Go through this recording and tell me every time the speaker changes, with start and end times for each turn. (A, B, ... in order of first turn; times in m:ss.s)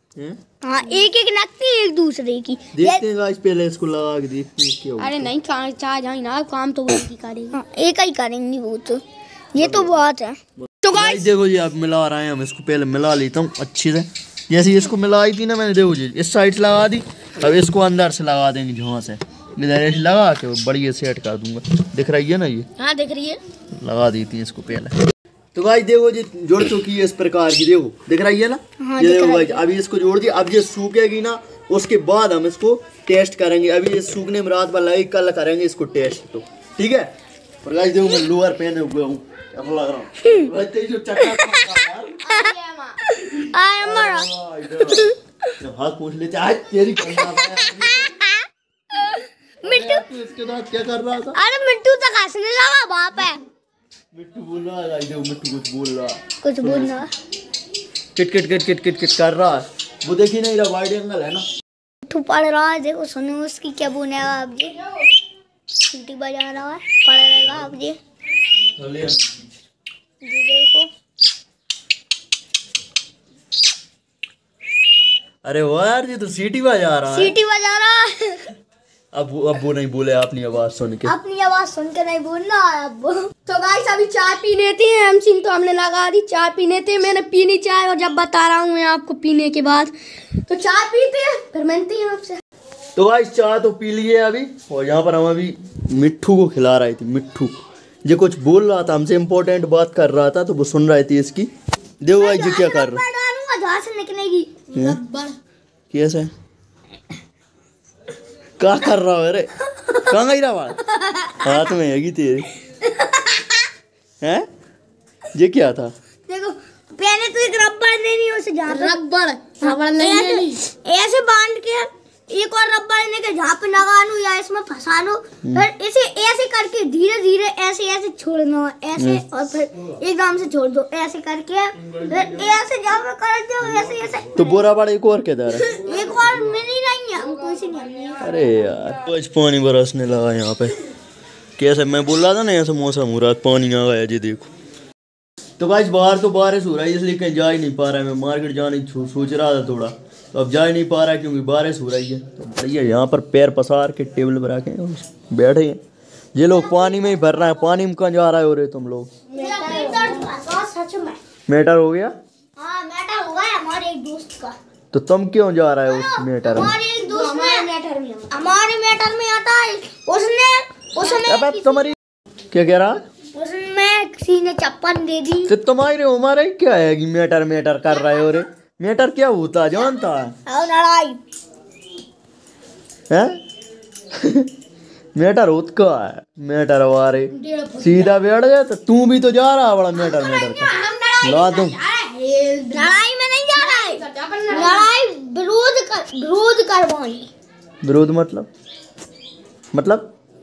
0:00.6-0:03.0 A
0:02.7-0:05.3 B
0:05.0-0:07.6 C
0:07.5-0:09.0 A
0:09.5-0:10.4 A
0:09.6-0:10.0 B
0:10.8-0:11.3 C
0:10.9-0:22.7 B
0:22.8-0:23.4 C
0:23.8-0:24.9 B
0:25.5-0:37.1 B
0:28.8-0:29.6 A
0:37.6-0:42.2 B
0:41.2-0:41.8 A
0:42.2-0:43.0 C
0:43.1-0:44.3 A
0:43.8-0:48.2 B
0:44.8-0:45.2 A
0:47.1-0:50.1 A
0:49.6-0:51.4 B
0:51.3-0:53.4 A
0:54.1-0:57.1 B
0:56.4-0:57.1 A
0:58.2-1:01.4 B
1:02.0-1:04.8 A
1:05.9-1:08.0 A
1:08.7-1:09.5 B
1:10.2-1:10.9 A
1:15.4-1:17.4 B
1:17.1-1:18.5 A
1:19.1-1:21.1 B
1:21.0-1:23.3 A
1:23.4-1:32.4 C
1:33.0-1:37.5 B
1:38.0-1:41.5 B
1:42.0-1:43.0 B
1:42.1-1:44.6 A
1:44.7-1:45.4 C
1:44.7-1:45.0 B
1:45.9-1:46.3 B
1:48.6-1:50.8 B
1:51.0-1:51.6 A
1:51.4-1:52.5 B
1:52.8-1:53.5 A
1:54.2-1:54.4 B
1:55.3-1:55.9 B
1:56.3-1:59.0 A
1:58.7-2:00.6 C
1:59.6-2:14.6 A
2:05.4-2:05.7 B
2:09.0-2:09.2 B
2:14.3-2:15.7 B
2:15.6-2:18.4 A
2:18.2-2:20.8 B
2:21.6-2:24.5 B
2:25.6-2:35.8 B
2:36.3-2:39.1 B
2:36.6-2:37.0 A
2:39.3-2:40.2 C
2:39.3-2:41.2 A
2:41.5-2:42.1 B
2:42.6-2:44.6 A
2:44.9-2:46.8 B
2:45.8-2:47.7 A
2:47.0-2:48.3 C
2:48.3-2:51.9 A
2:51.2-2:52.0 B
2:52.5-2:53.0 B
2:53.3-2:55.5 A
2:55.5-3:00.4 B
3:00.4-3:01.2 A
3:03.1-3:03.4 B
3:04.1-3:04.5 B
3:05.2-3:11.8 B
3:07.3-3:08.1 C
3:10.0-3:13.0 C
3:12.7-3:17.3 A
3:13.5-3:14.9 C
3:17.8-3:18.5 B
3:19.7-3:20.1 B